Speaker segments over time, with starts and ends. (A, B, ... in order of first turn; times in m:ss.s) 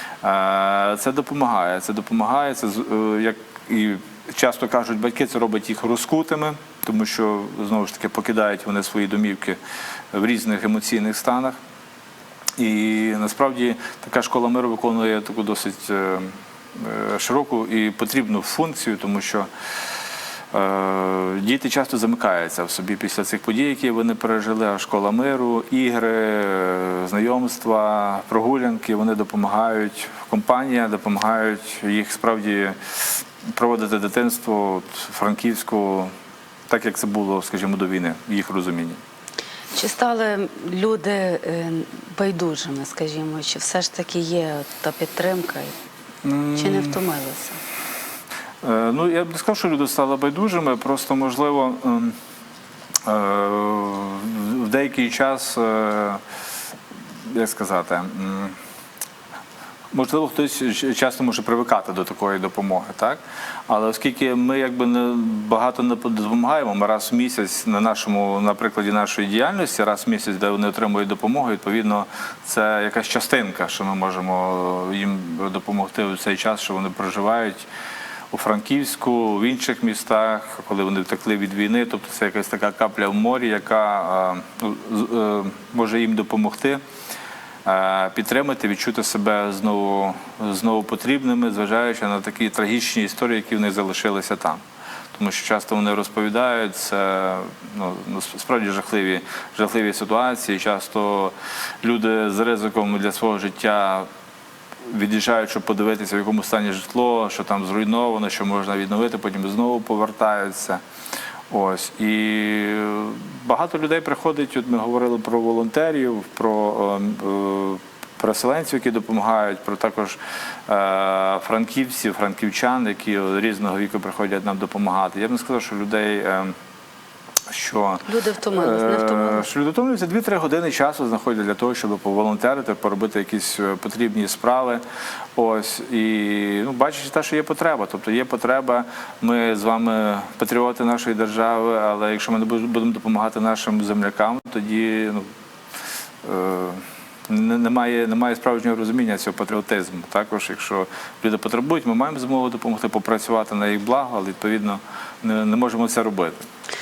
0:00.2-0:09.6 A
0:10.1-0:11.6 A
0:12.6-0:19.5 A
0:20.5-0:36.1 A
0:36.7-0:39.0 A
0:39.7-0:45.7 B
0:46.2-0:47.0 A
0:46.5-0:47.6 B
0:48.6-0:52.2 A
0:53.0-0:56.2 A
0:57.3-0:58.6 A
0:59.9-1:17.7 A
1:18.3-1:26.8 A
1:27.6-1:34.6 A
1:35.1-1:44.1 A
1:44.9-1:50.8 A
1:51.5-2:06.6 A
2:07.5-2:14.8 A
2:08.0-2:09.5 B
2:15.4-2:25.3 A
2:26.2-2:36.4 A